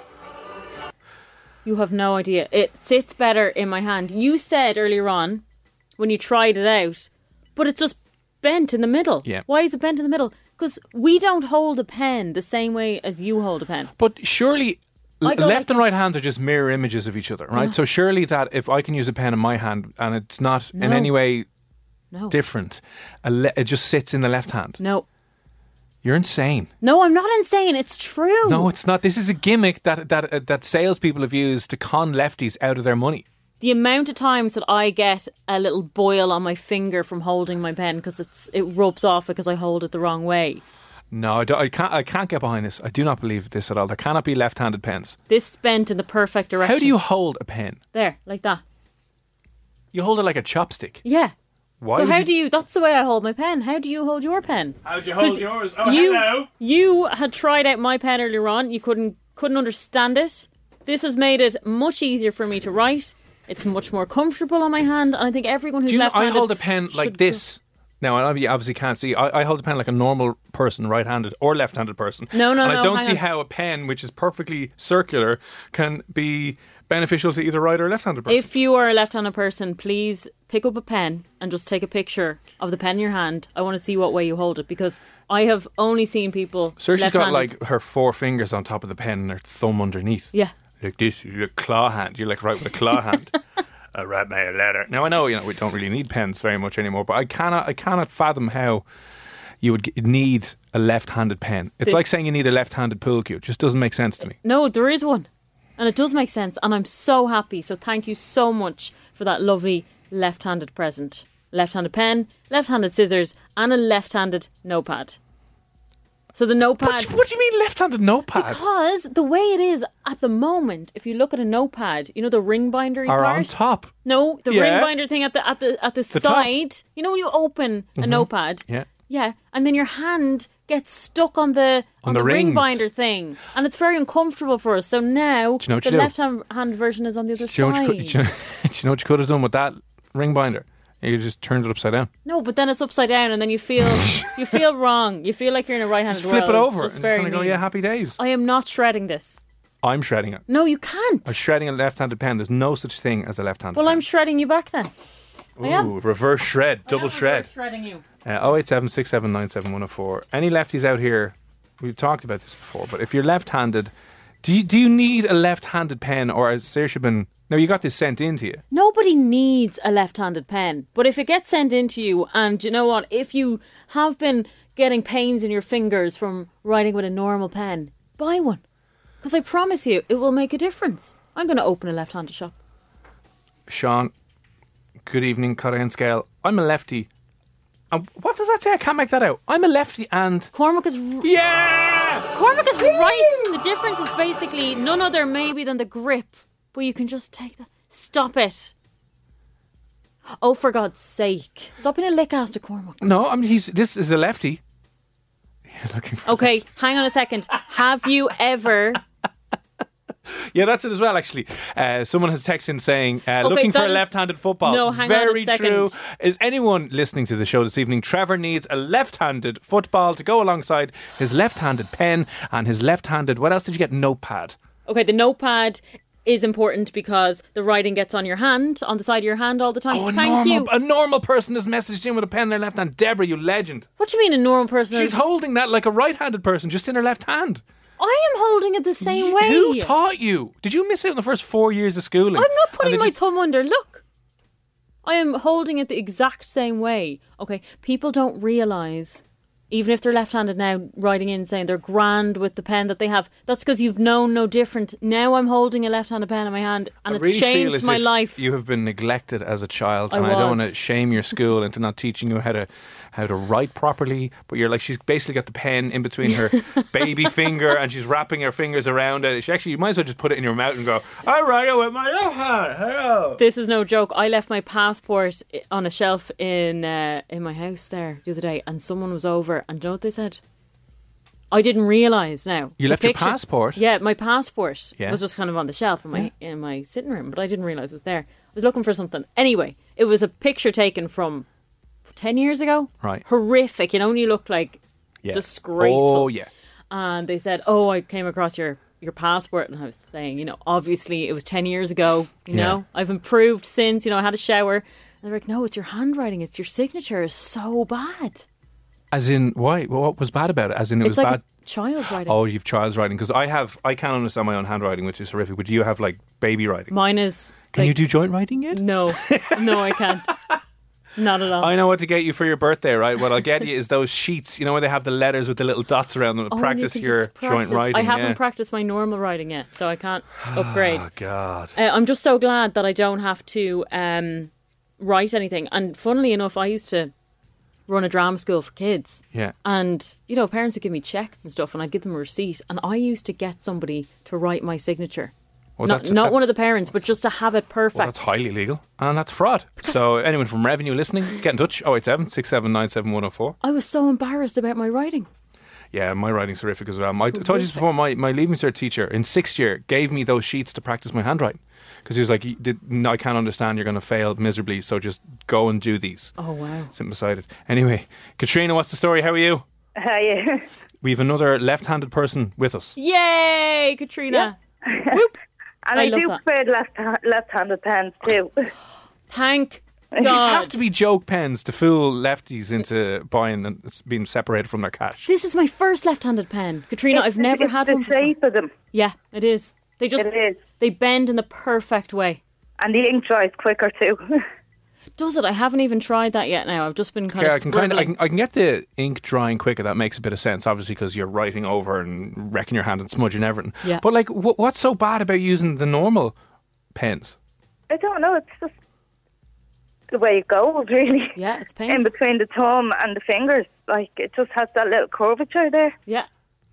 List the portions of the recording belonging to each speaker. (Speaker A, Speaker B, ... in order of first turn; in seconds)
Speaker A: 1.6-5.4, 6.0-13.9, 15.2-15.7, 20.8-21.1, 24.8-25.1, 26.8-28.7, 33.6-40.6, 45.3-47.0, 47.9-48.6, 51.0-51.3, 51.9-67.4, 72.3-73.2, 78.3-87.5, 104.3-115.2, 116.3-117.1, 118.3-138.2, 142.2-147.6, 148.2-149.4, 150.5-151.3, 153.7-154.9, 155.6-155.9, 156.8-158.0, 168.7-178.6, 179.2-182.6, 190.5-191.3, 192.3-198.7, 200.4-203.0, 206.2-209.0, 213.4-216.0, 224.8-230.7, 234.0-235.2, 238.0-239.9, 242.3-244.0, 245.0-258.4, 260.1-260.7, 273.4-280.4, 281.5-291.4, 292.1-294.8, 295.3-296.3, 296.9-308.4, 311.0-312.4, 316.9-318.0, 318.7-320.3, 321.1-321.7, 326.5-331.1, 331.8-337.1, 337.9-345.3, 345.8-348.3, 353.6-355.3, 357.3-357.8, 366.4-366.9, 372.9-374.5, 375.9-376.4, 379.3-380.8, 385.2-388.3, 388.9-390.3, 390.8-392.4, 395.2-398.1, 411.4-412.1
Speaker B: 14.0-21.4, 22.3-24.8, 26.0-26.7, 28.4-33.2, 41.1-45.2, 46.6-47.8, 49.9-51.0, 51.8-52.3, 54.8-56.5, 65.8-78.5, 86.8-93.3, 93.9-98.8, 99.6-104.3, 116.8-118.6, 123.1-123.9, 124.5-124.9, 126.1-126.5, 128.0-128.9, 132.0-132.8, 135.6-136.1, 137.4-142.1, 144.0-144.3, 146.1-148.2, 149.8-150.4, 151.2-154.0, 155.6-157.5, 158.2-163.9, 164.4-168.6, 183.7-184.1, 185.1-187.1, 187.9-190.5, 191.2-193.3, 203.0-204.6, 205.7-206.6, 210.3-224.6, 229.9-233.9, 234.9-237.6, 239.0-243.1, 257.1-273.4, 282.8-283.8, 295.2-296.5, 302.5-302.8, 309.1-311.4, 312.2-316.9, 317.7-320.6, 321.6-328.4, 330.4-331.7, 345.8-347.1, 347.9-353.6, 355.9-366.4, 366.9-369.6, 371.0-372.9, 380.2-385.3, 397.3-406.4, 406.9-407.4
Speaker C: 370.0-370.6, 374.3-375.2, 375.8-378.5, 387.1-388.7, 390.2-390.6, 392.8-394.4, 407.9-408.7, 410.1-411.4, 411.9-415.9